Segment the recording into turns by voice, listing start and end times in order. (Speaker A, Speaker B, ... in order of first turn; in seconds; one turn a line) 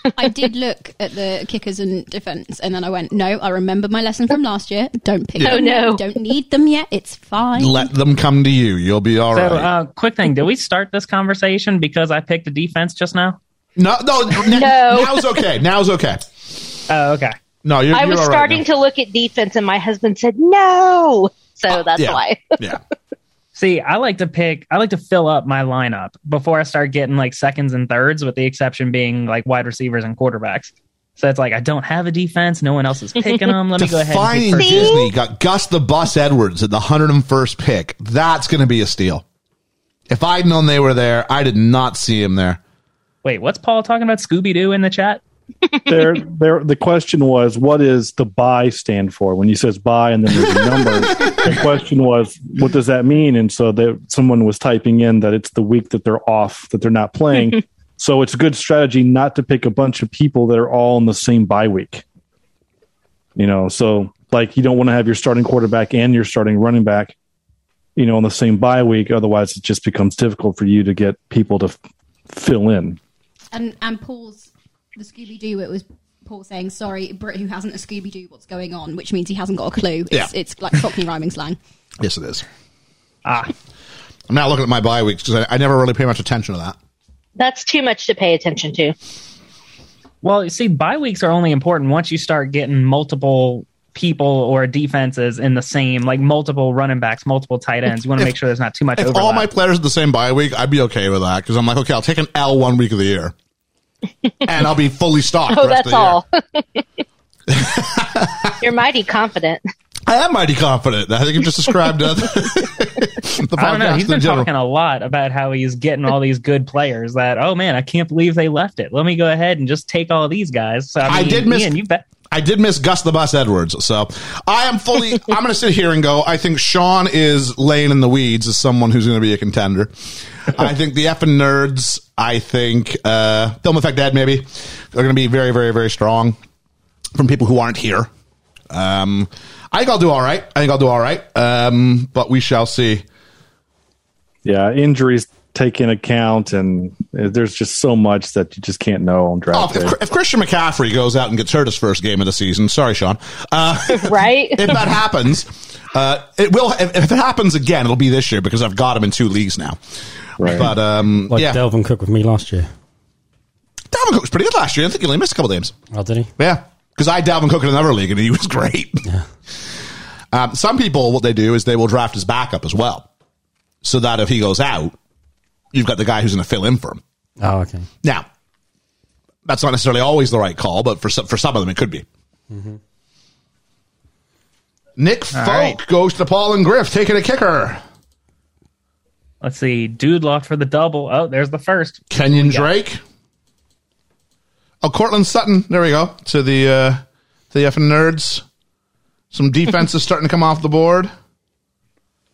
Speaker A: 0.1-7.9
Speaker B: 5.4-6.0
Speaker C: 7.6-9.7
Speaker D: 9.3-13.4
Speaker C: 13.8-16.2
Speaker B: 14.4-15.3
Speaker D: 16.9-17.4
Speaker C: 17.6-18.6
Speaker B: 17.9-22.6
Speaker C: 21.7-22.8
Speaker D: 23.5-35.0
Speaker C: 33.8-39.2
Speaker B: 34.6-35.1
Speaker C: 40.1-42.6
Speaker D: 43.2-45.2
Speaker E: 45.9-62.0
Speaker E: 63.4-67.1
Speaker E: 68.0-71.8
Speaker E: 72.3-73.0
Speaker A: 73.5-81.6
Speaker C: 82.0-82.4
Speaker D: 83.2-83.5
Speaker C: 84.3-86.8
Speaker B: 87.3-88.9
Speaker D: 90.2-99.5
Speaker C: 99.0-103.3
Speaker C: 104.4-106.2
Speaker B: 105.5-106.8
Speaker C: 107.5-108.6
Speaker B: 108.6-109.6
Speaker C: 110.0-114.5
Speaker D: 113.6-122.0
Speaker C: 121.0-121.7
Speaker C: 122.3-136.4
Speaker C: 137.1-138.1
Speaker C: 138.7-143.0
Speaker E: 144.4-149.9
Speaker C: 149.5-159.8
Speaker B: 153.9-154.8
Speaker E: 160.4-160.7
Speaker C: 160.4-161.6
Speaker F: 161.3-162.7
Speaker C: 163.9-165.7
Speaker F: 165.9-166.3
Speaker C: 166.4-169.0
Speaker C: 170.3-173.1
Speaker C: 173.8-174.9
Speaker C: 175.7-177.0
Speaker F: 177.4-177.9
Speaker C: 179.4-182.1
Speaker F: 182.5-182.8
Speaker C: 185.0-187.8
Speaker D: 185.3-185.8
Speaker D: 189.4-192.7
Speaker C: 192.1-193.0
Speaker C: 194.8-198.4
Speaker C: 199.3-201.1